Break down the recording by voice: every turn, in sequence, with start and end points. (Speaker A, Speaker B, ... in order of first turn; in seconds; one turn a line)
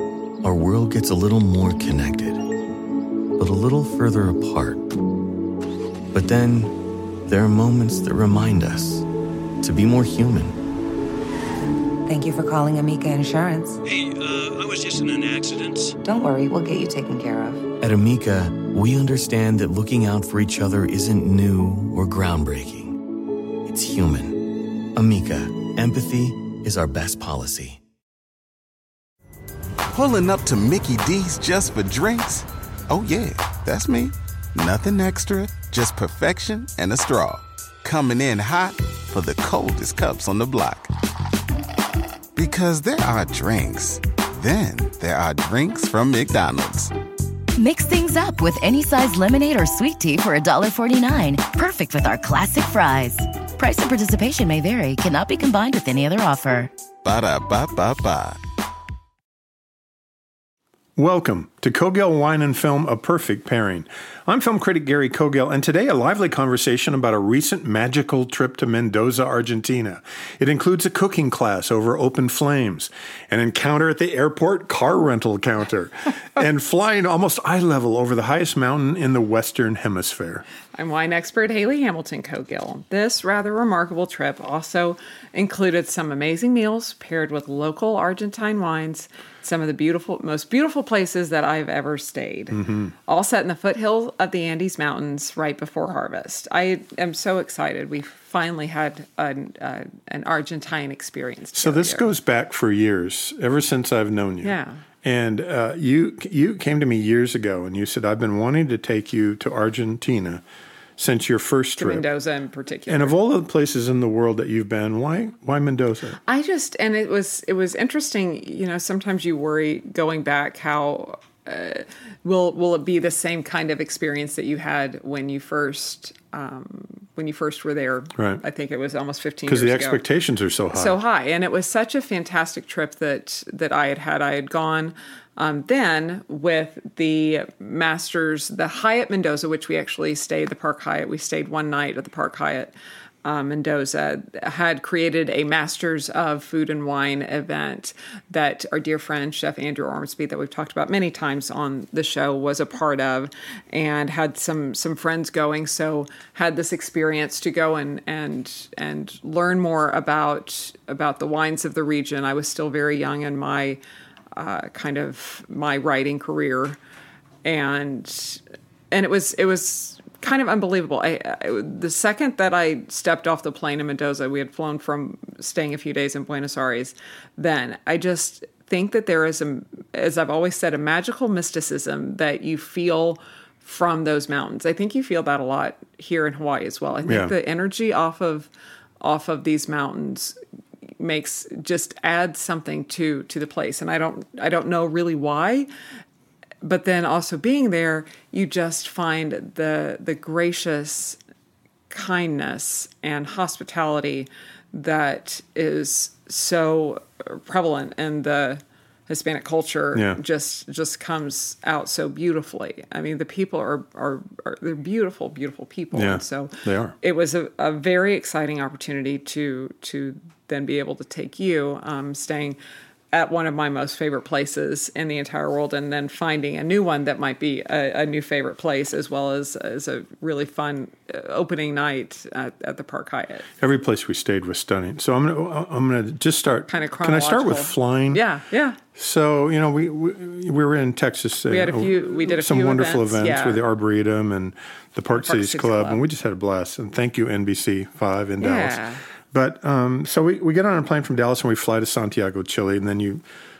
Speaker A: 0.4-2.4
Speaker A: 3.4-4.9
Speaker A: 6.1-9.1
Speaker A: 9.6-10.6
Speaker B: 12.1-13.8
Speaker C: 13.8-15.9
Speaker B: 16.0-17.7
Speaker A: 17.8-23.0
Speaker A: 23.6-27.8
Speaker D: 29.9-40.9
Speaker D: 42.3-46.9
Speaker E: 47.6-56.7
Speaker D: 57.0-58.4
Speaker F: 61.0-80.4
Speaker G: 80.7-102.1
Speaker F: 92.5-92.9
Speaker F: 101.5-110.4
Speaker G: 104.4-104.8
Speaker F: 111.0-112.0
Speaker G: 111.8-113.2
Speaker F: 112.9-116.2
Speaker G: 116.3-130.0
Speaker F: 128.2-128.4
Speaker F: 129.5-131.0
Speaker G: 130.7-163.8
Speaker G: 164.3-166.8
Speaker G: 167.4-188.5
Speaker F: 187.1-187.3
Speaker G: 189.0-190.4
Speaker G: 191.0-195.7
Speaker G: 196.6-201.2
Speaker G: 201.9-222.6
Speaker F: 209.9-210.2
Speaker F: 215.9-216.9
Speaker G: 223.1-233.5
Speaker F: 233.6-238.2
Speaker G: 236.7-238.8
Speaker F: 238.9-253.2
Speaker G: 241.5-243.6
Speaker G: 245.1-246.0
Speaker G: 248.4-249.0